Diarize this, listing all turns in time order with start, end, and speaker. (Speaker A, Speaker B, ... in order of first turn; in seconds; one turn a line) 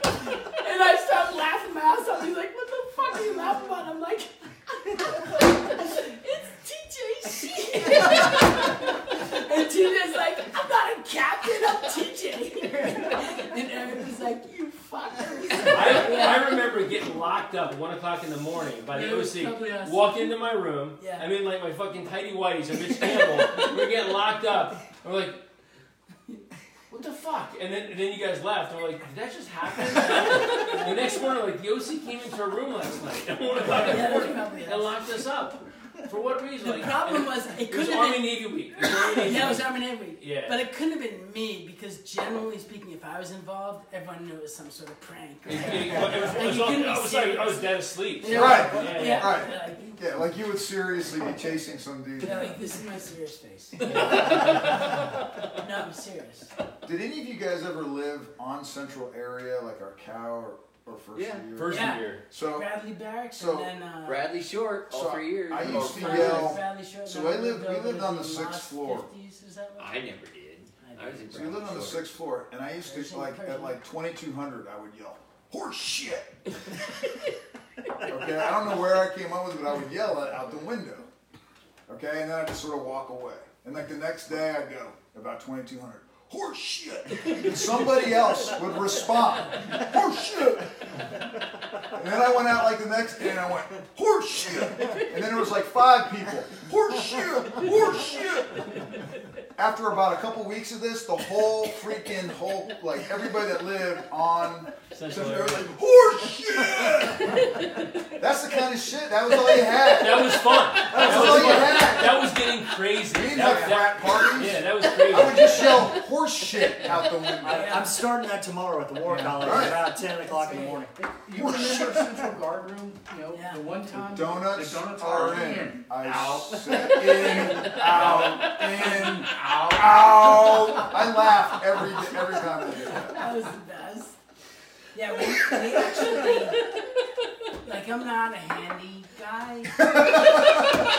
Speaker A: 0.5-16.6
Speaker B: 15.7-25.4
Speaker A: 18.9-20.3
Speaker A: 21.0-21.3
Speaker B: 26.9-40.6
Speaker A: 33.8-35.0
Speaker A: 36.7-50.0
Speaker B: 45.4-49.4
Speaker C: 48.2-52.6
Speaker A: 52.2-56.5
Speaker D: 53.8-55.1
Speaker C: 53.9-54.5
Speaker C: 56.8-62.7
Speaker D: 61.1-61.5
Speaker B: 61.5-62.2
Speaker A: 61.7-64.3
Speaker C: 63.3-63.7
Speaker D: 64.0-66.6
Speaker C: 64.9-69.1
Speaker A: 65.6-70.0
Speaker D: 69.8-72.1
Speaker A: 70.8-71.6
Speaker C: 71.3-76.9
Speaker A: 72.8-73.8
Speaker C: 78.0-81.1
Speaker C: 81.9-112.3
Speaker B: 104.9-105.7
Speaker B: 109.8-115.9
Speaker C: 113.0-117.8
Speaker E: 117.4-121.0
Speaker A: 117.5-118.0
Speaker F: 119.0-119.8
Speaker C: 119.4-119.9
Speaker A: 120.0-120.8
Speaker F: 121.0-126.8
Speaker C: 121.3-122.2
Speaker A: 123.3-123.6
Speaker C: 124.0-133.3
Speaker D: 126.1-128.3
Speaker F: 127.6-128.1
Speaker B: 127.7-129.1
Speaker F: 129.3-130.5
Speaker A: 133.1-134.2
Speaker A: 134.9-136.7
Speaker A: 137.6-140.6
Speaker C: 139.8-140.6